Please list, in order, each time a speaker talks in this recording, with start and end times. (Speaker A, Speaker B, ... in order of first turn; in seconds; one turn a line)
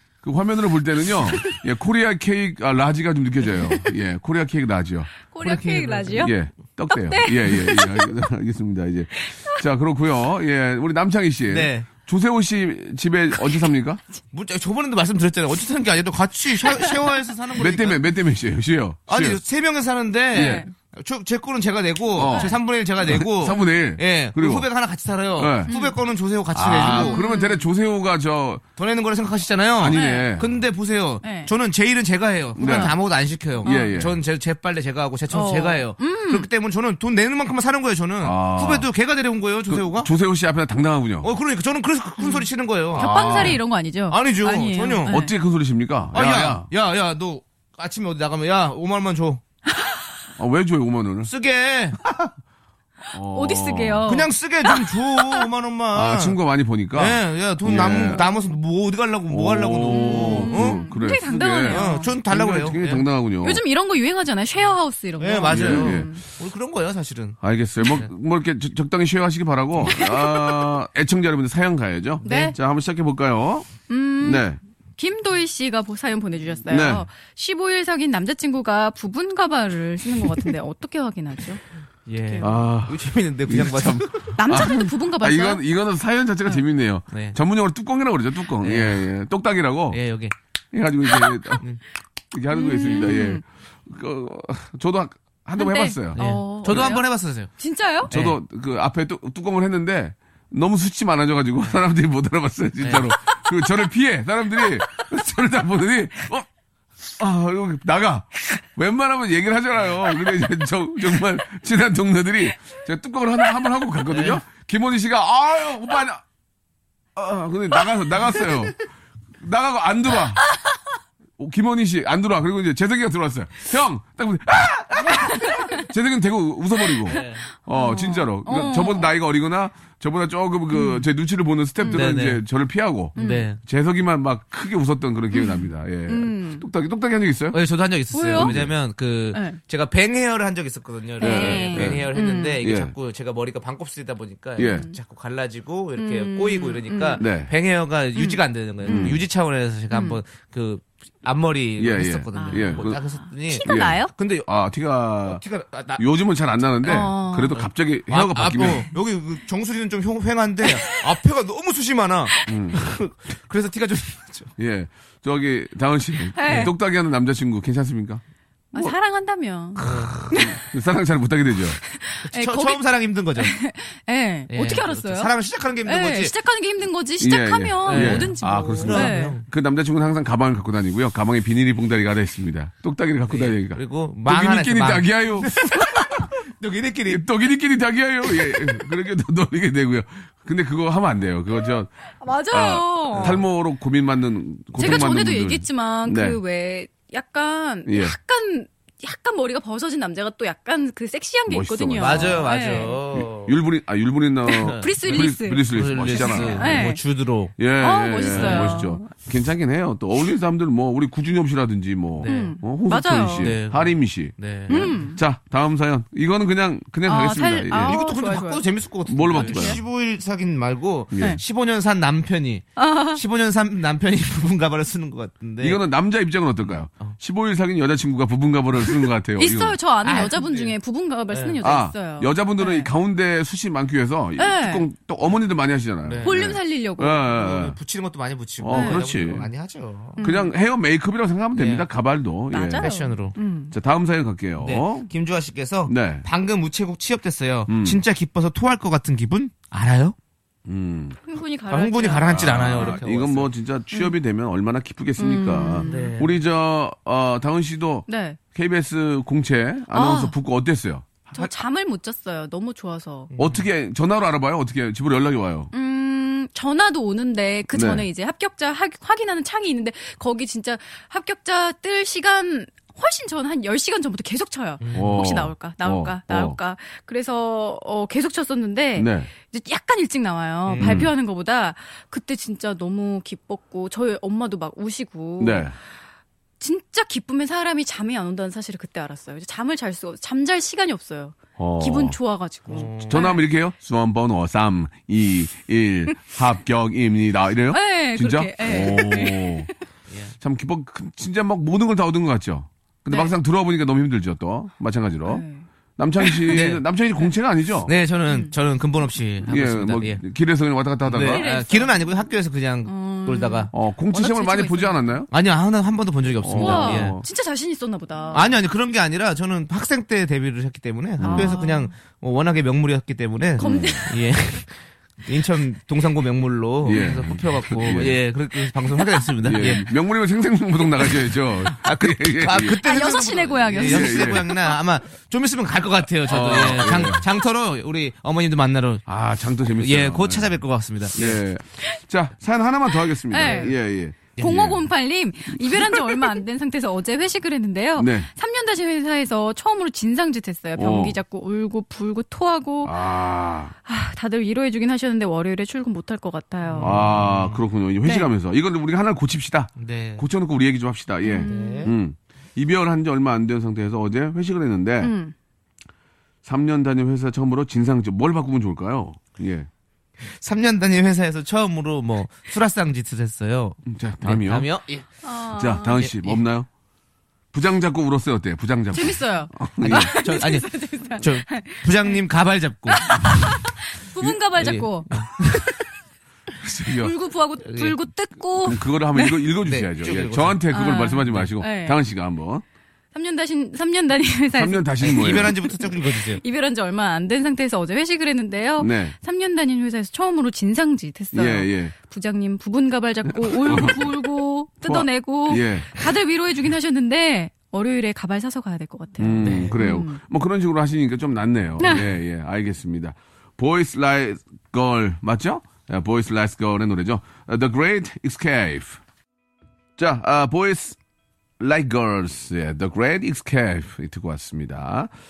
Speaker A: 0.2-5.1
Speaker B: 5.2-6.3
Speaker C: 5.4-6.3
Speaker A: 6.2-14.0
Speaker B: 6.9-8.1
Speaker B: 9.2-9.6
Speaker C: 11.5-11.9
Speaker C: 14.3-18.0
Speaker B: 16.6-16.9
Speaker A: 17.5-19.4
Speaker C: 19.1-27.2
Speaker A: 20.3-20.6
Speaker B: 20.3-20.7
Speaker A: 22.1-24.7
Speaker B: 22.3-22.6
Speaker A: 25.4-25.7
Speaker B: 25.7-26.0
Speaker A: 26.5-28.6
Speaker B: 26.9-27.6
Speaker C: 28.8-40.1
Speaker A: 29.8-30.5
Speaker B: 29.9-30.3
Speaker B: 31.2-31.5
Speaker A: 32.5-32.9
Speaker B: 32.6-33.0
Speaker A: 33.6-34.2
Speaker B: 33.6-34.0
Speaker B: 35.3-36.5
Speaker A: 38.2-38.9
Speaker A: 39.7-41.3
Speaker C: 41.2-45.1
Speaker B: 42.2-45.3
Speaker A: 43.0-43.6
Speaker A: 45.0-46.7
Speaker C: 46.1-49.4
Speaker A: 50.4-51.3
Speaker C: 51.2-52.3
Speaker A: 53.1-54.1
Speaker B: 53.3-55.5
Speaker C: 54.1-56.4
Speaker A: 55.9-58.2
Speaker C: 56.9-60.8
Speaker A: 59.3-63.6
Speaker B: 59.9-62.1
Speaker C: 61.6-63.0
Speaker B: 63.4-66.2
Speaker C: 65.2-68.1
Speaker A: 65.5-66.1
Speaker A: 67.4-74.6
Speaker C: 69.9-70.2
Speaker C: 72.2-72.5
Speaker B: 72.2-72.5
Speaker B: 73.9-81.6
Speaker A: 76.7-77.0
Speaker C: 82.1-84.3
Speaker B: 82.2-82.5
Speaker A: 82.4-90.0
Speaker B: 84.3-85.6
Speaker C: 87.1-87.4
Speaker C: 88.6-89.1
Speaker C: 89.9-90.3
Speaker A: 90.7-91.6
Speaker B: 91.1-91.5
Speaker A: 92.3-96.9
Speaker B: 92.5-93.4
Speaker B: 95.6-98.1
Speaker C: 96.2-97.5
Speaker C: 98.1-98.4
Speaker A: 98.1-106.5
Speaker C: 102.8-103.1
Speaker A: 107.2-116.2
Speaker C: 114.1-114.4
Speaker A: 117.2-118.8
Speaker A: 119.4-120.4
Speaker A: 121.4-137.6
Speaker B: 125.3-125.8
Speaker C: 127.1-127.5
Speaker B: 127.1-129.1
Speaker B: 130.7-131.0
Speaker B: 131.8-132.1
Speaker C: 131.9-132.4
Speaker C: 133.1-133.6
Speaker B: 133.2-133.5
Speaker B: 135.3-136.6
Speaker C: 137.5-154.5
Speaker B: 138.1-138.6
Speaker A: 138.3-138.7
Speaker B: 139.3-139.6
Speaker B: 141.2-142.6
Speaker A: 141.2-142.1
Speaker A: 142.6-142.9
Speaker A: 144.6-144.9
Speaker B: 144.6-144.9
Speaker B: 146.0-147.2
Speaker A: 147.2-147.5
Speaker B: 148.2-149.2
Speaker A: 148.8-149.2
Speaker B: 149.9-150.2
Speaker A: 151.8-153.0
Speaker B: 152.3-154.1
Speaker A: 153.6-155.4
Speaker C: 155.2-156.0
Speaker A: 156.0-158.9
Speaker B: 156.8-157.6
Speaker C: 157.5-164.5
Speaker A: 162.4-162.8
Speaker A: 164.6-168.2
Speaker B: 166.3-166.7
Speaker C: 166.4-166.7
Speaker B: 168.7-170.6
Speaker C: 169.8-170.2
Speaker A: 170.3-171.8
Speaker B: 171.9-172.8
Speaker C: 172.2-173.5
Speaker B: 173.4-175.3
Speaker C: 174.5-176.3
Speaker B: 175.8-179.4
Speaker A: 177.2-186.2
Speaker C: 177.8-179.4
Speaker C: 183.3-187.3
Speaker A: 187.1-191.9
Speaker B: 192.2-193.4
Speaker A: 192.5-196.4
Speaker C: 193.1-193.4
Speaker B: 194.8-203.0
Speaker A: 197.8-198.1
Speaker A: 201.5-202.5
Speaker C: 202.0-203.6
Speaker A: 203.1-206.8
Speaker B: 204.5-207.0
Speaker C: 204.6-207.5
Speaker A: 207.6-218.0
Speaker B: 207.8-209.1
Speaker C: 208.3-208.8
Speaker C: 212.2-212.6
Speaker B: 212.2-213.5
Speaker C: 213.4-215.1
Speaker B: 214.7-215.2
Speaker B: 217.0-218.6
Speaker C: 217.7-225.8
Speaker A: 219.1-219.8
Speaker B: 219.3-219.8
Speaker A: 221.1-221.4
Speaker B: 222.8-223.2
Speaker A: 225.6-229.8
Speaker C: 226.7-227.2
Speaker B: 229.4-232.9
Speaker C: 230.0-230.7
Speaker C: 231.3-231.6
Speaker A: 231.6-237.8
Speaker B: 234.4-234.9
Speaker C: 236.0-236.4
Speaker B: 236.2-237.3
Speaker C: 237.3-240.2
Speaker A: 238.6-239.5
Speaker B: 238.7-239.0
Speaker B: 240.2-240.5
Speaker A: 240.2-242.9
Speaker C: 241.5-241.8
Speaker B: 242.5-243.7
Speaker C: 242.8-243.3
Speaker A: 243.7-245.1
Speaker C: 244.6-250.1
Speaker A: 245.9-246.2
Speaker A: 247.7-248.0
Speaker A: 250.7-251.2
Speaker B: 251.2-253.0
Speaker C: 251.7-253.5
Speaker A: 252.3-261.5
Speaker B: 255.2-256.1
Speaker C: 255.8-256.4
Speaker B: 258.1-258.4
Speaker B: 259.9-260.4
Speaker B: 261.3-263.3
Speaker C: 263.3-263.6
Speaker A: 263.4-265.7
Speaker B: 265.7-285.8
Speaker A: 267.7-268.1
Speaker C: 274.8-275.2
Speaker A: 274.9-276.6
Speaker A: 278.9-279.3
Speaker C: 280.7-281.1
Speaker A: 280.8-281.1
Speaker A: 285.4-285.7
Speaker B: 286.6-293.4
Speaker A: 291.6-292.1
Speaker C: 292.7-293.2
Speaker A: 293.1-299.7
Speaker B: 297.7-299.7
Speaker C: 300.1-300.3
Speaker A: 300.4-305.4
Speaker B: 303.1-303.3
Speaker B: 305.2-305.6
Speaker A: 306.0-307.9
Speaker B: 306.2-306.6
Speaker C: 306.5-306.8
Speaker C: 307.9-310.2
Speaker A: 309.4-311.4
Speaker C: 311.0-313.7
Speaker B: 311.2-312.1
Speaker B: 312.9-315.0
Speaker A: 313.7-315.3
Speaker C: 315.3-317.2
Speaker A: 316.4-317.2
Speaker B: 316.6-318.5
Speaker C: 318.3-329.9
Speaker A: 321.2-321.6
Speaker B: 321.2-321.9
Speaker A: 323.6-324.1
Speaker B: 323.6-324.1
Speaker A: 326.8-328.2
Speaker A: 329.4-332.8
Speaker C: 331.6-339.0
Speaker B: 332.8-334.8
Speaker A: 333.8-334.4
Speaker A: 336.2-337.2
Speaker A: 339.1-340.6
Speaker C: 339.7-341.4
Speaker A: 341.1-344.9
Speaker B: 343.0-343.8
Speaker C: 344.4-344.6
Speaker B: 344.4-353.1
Speaker A: 345.6-346.4
Speaker A: 348.0-348.3
Speaker A: 350.8-351.2
Speaker A: 352.8-353.7
Speaker B: 353.9-357.2
Speaker C: 356.6-357.6
Speaker A: 356.8-365.1
Speaker B: 358.0-358.3
Speaker C: 359.8-360.2
Speaker B: 361.2-361.9
Speaker C: 361.4-361.9
Speaker B: 365.0-365.3
Speaker A: 366.4-369.7
Speaker C: 370.2-375.1
Speaker A: 373.9-374.7
Speaker B: 375.2-376.0
Speaker A: 375.5-376.7
Speaker C: 375.9-376.4
Speaker A: 377.5-380.1
Speaker B: 378.9-382.2
Speaker C: 379.8-383.5
Speaker B: 382.9-385.8
Speaker C: 384.5-385.7
Speaker A: 386.6-387.1
Speaker B: 386.9-389.4
Speaker C: 387.6-387.9
Speaker A: 388.6-392.6
Speaker C: 389.6-390.6
Speaker B: 390.7-392.0
Speaker B: 393.1-410.2
Speaker A: 394.5-395.6
Speaker C: 395.0-396.4
Speaker A: 398.8-399.1
Speaker A: 401.3-401.9
Speaker A: 403.3-404.1
Speaker A: 404.8-406.0
Speaker A: 409.2-419.0
Speaker C: 409.4-409.8
Speaker B: 411.8-412.1
Speaker A: 420.0-421.0
Speaker A: 421.6-425.1